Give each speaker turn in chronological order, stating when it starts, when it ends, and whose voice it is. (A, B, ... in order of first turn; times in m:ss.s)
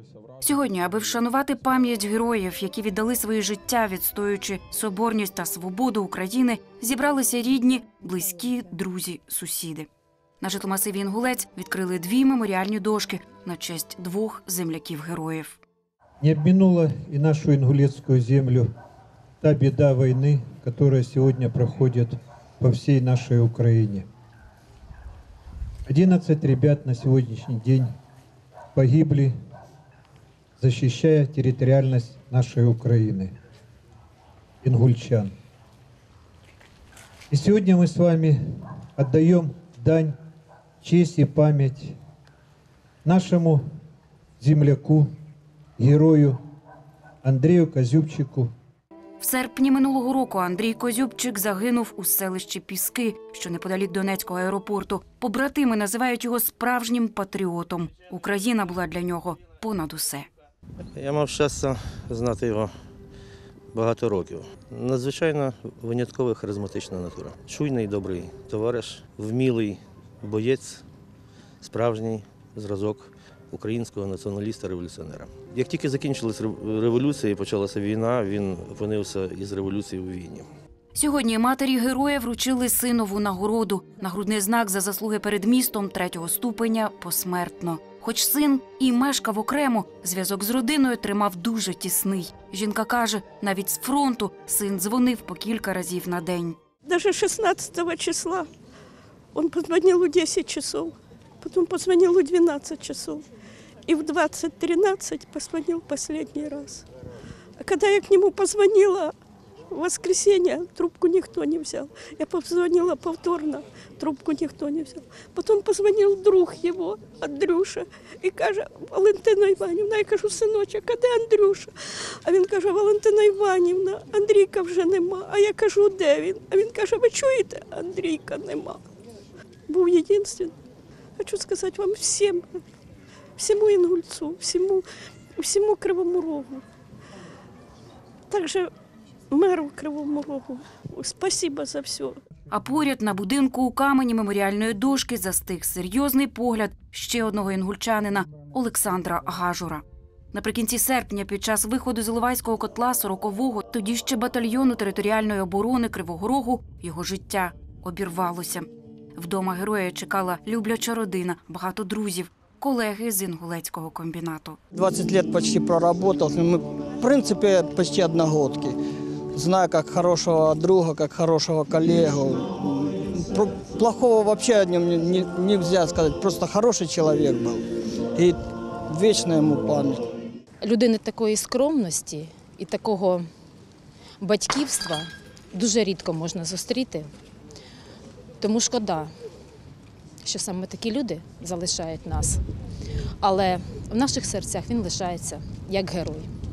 0:00.4-0:09.9 A
0:10.4-0:15.6 A
0:16.2-0:18.7 B
0:19.4-0:24.1 B
0:25.9-0:27.9 B
0:28.7-0:29.3 B
0:30.6-0:33.3 B
0:34.6-0:35.3 B
0:37.3-0:38.4 B
0:39.0-0:40.2 B
0:40.8-0:42.0 B
0:43.0-0:43.6 B
0:44.4-0:45.1 B
0:45.8-0:46.4 B
0:47.2-0:48.5 B
0:49.2-1:00.3 A
1:01.0-1:02.7 C
1:03.7-1:10.8 C
1:11.6-1:20.5 C
1:20.9-1:36.6 A
1:36.9-1:38.5 D
1:39.3-1:43.2 D
1:43.9-1:46.8 D
1:47.6-1:49.1 D
1:49.7-2:01.7 D
2:02.2-2:08.8 D
2:09.7-2:10.6 D
2:11.2-2:12.5 D
2:13.4-2:14.8 D
2:15.4-2:16.6 D
2:18.3-2:18.7 D
2:19.3-2:22.2 D
2:22.5-2:44.6 A
2:44.7-2:48.8 E
2:49.3-3:00.0 E
3:00.6-3:03.3 F
3:04.2-3:07.1 F
3:08.4-3:09.1 F
3:10.2-3:12.4 F
3:13.2-3:16.3 F